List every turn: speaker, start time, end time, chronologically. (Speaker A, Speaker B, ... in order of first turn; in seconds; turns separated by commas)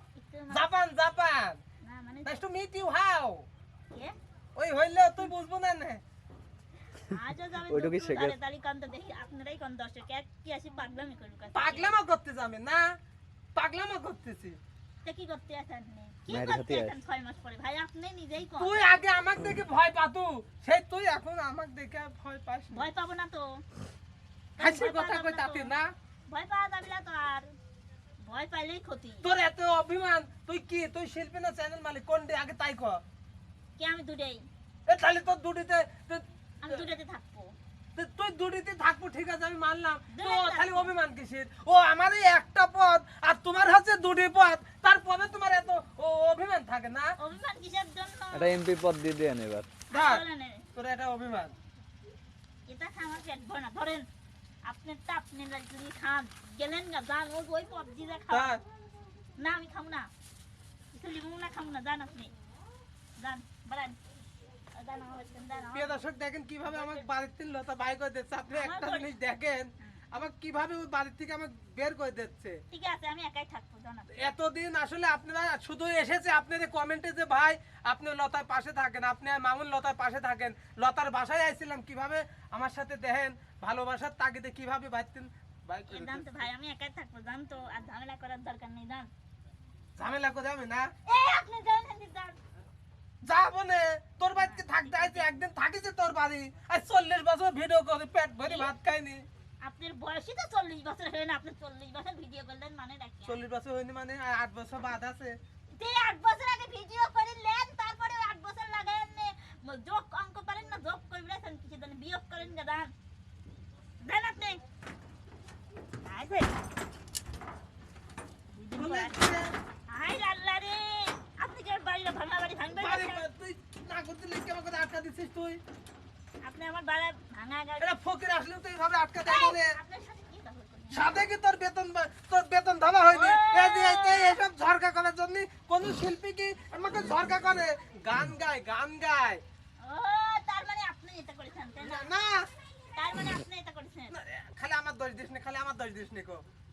Speaker A: 0.1-0.7, Speaker B: 0.5-1.6, Speaker A: 1.8-2.3, Speaker B: 2.2-3.5, Speaker A: 3.9-4.1, Speaker B: 4.5-6.0, Speaker A: 7.0-11.9, Speaker C: 7.7-8.3, Speaker B: 11.5-13.0, Speaker B: 13.5-14.6, Speaker A: 15.0-18.8, Speaker C: 16.3-16.9, Speaker B: 18.5-22.9, Speaker A: 22.7-23.6, Speaker A: 24.6-25.7, Speaker B: 24.6-25.9, Speaker A: 26.3-27.5, Speaker A: 28.2-29.3, Speaker B: 29.2-33.0, Speaker A: 33.8-34.4, Speaker B: 34.9-36.8, Speaker A: 36.6-37.5, Speaker B: 38.0-47.1, Speaker A: 40.1-40.9, Speaker A: 47.2-48.6, Speaker C: 48.3-49.7, Speaker A: 49.9-50.7, Speaker B: 49.9-50.2, Speaker B: 50.7-51.5, Speaker A: 52.7-54.1, Speaker A: 54.6-58.6, Speaker B: 58.3-58.6, Speaker A: 59.4-60.1, Speaker A: 60.9-62.3, Speaker A: 63.2-64.0, Speaker A: 64.8-66.0, Speaker B: 65.7-72.6, Speaker A: 66.6-67.0, Speaker A: 68.5-69.1, Speaker A: 72.7-74.1, Speaker B: 74.1-86.5, Speaker A: 85.9-89.1, Speaker B: 90.0-90.9, Speaker A: 91.1-92.4, Speaker B: 93.2-99.2, Speaker A: 94.4-95.3, Speaker A: 98.4-98.7, Speaker A: 99.6-103.4, Speaker B: 103.2-105.4, Speaker A: 105.8-112.9, Speaker A: 114.0-114.6, Speaker A: 116.0-116.5, Speaker A: 118.5-119.2, Speaker B: 118.8-119.5, Speaker A: 119.9-123.2, Speaker B: 122.8-125.6, Speaker A: 126.4-127.9, Speaker B: 127.8-129.7, Speaker A: 129.2-131.2, Speaker B: 130.9-139.4, Speaker A: 133.1-134.4, Speaker A: 139.8-142.1, Speaker B: 141.8-142.5, Speaker A: 142.9-144.2, Speaker B: 144.1-146.4